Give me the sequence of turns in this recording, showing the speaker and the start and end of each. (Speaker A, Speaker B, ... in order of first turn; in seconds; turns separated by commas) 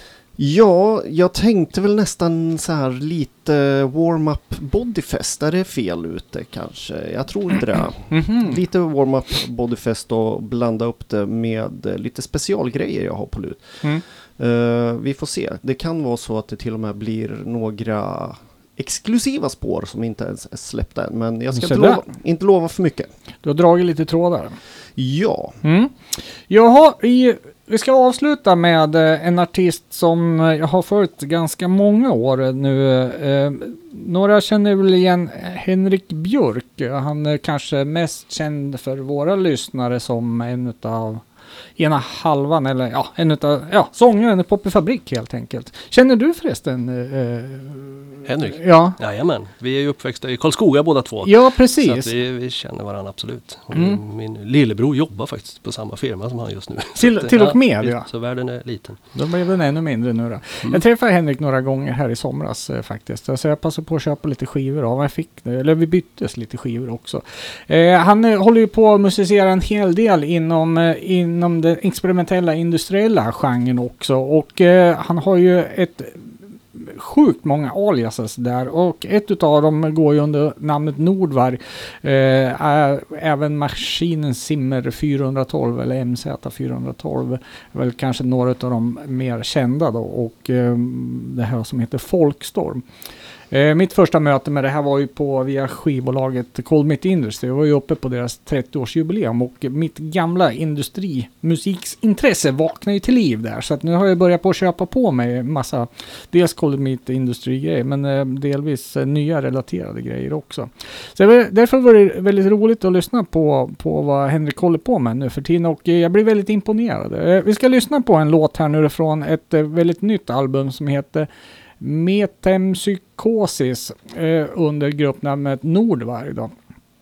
Speaker A: 0.4-13.8, Speaker B: 8.1-8.6, Speaker A: 14.4-23.1, Speaker B: 21.5-22.0, Speaker B: 23.4-24.6, Speaker A: 24.9-25.6, Speaker B: 25.6-41.2, Speaker B: 41.8-49.0, Speaker C: 48.2-59.0, Speaker B: 51.2-52.1, Speaker B: 53.7-54.0, Speaker B: 57.0-58.0, Speaker B: 59.1-92.8, Speaker B: 93.5-121.3, Speaker B: 121.8-126.5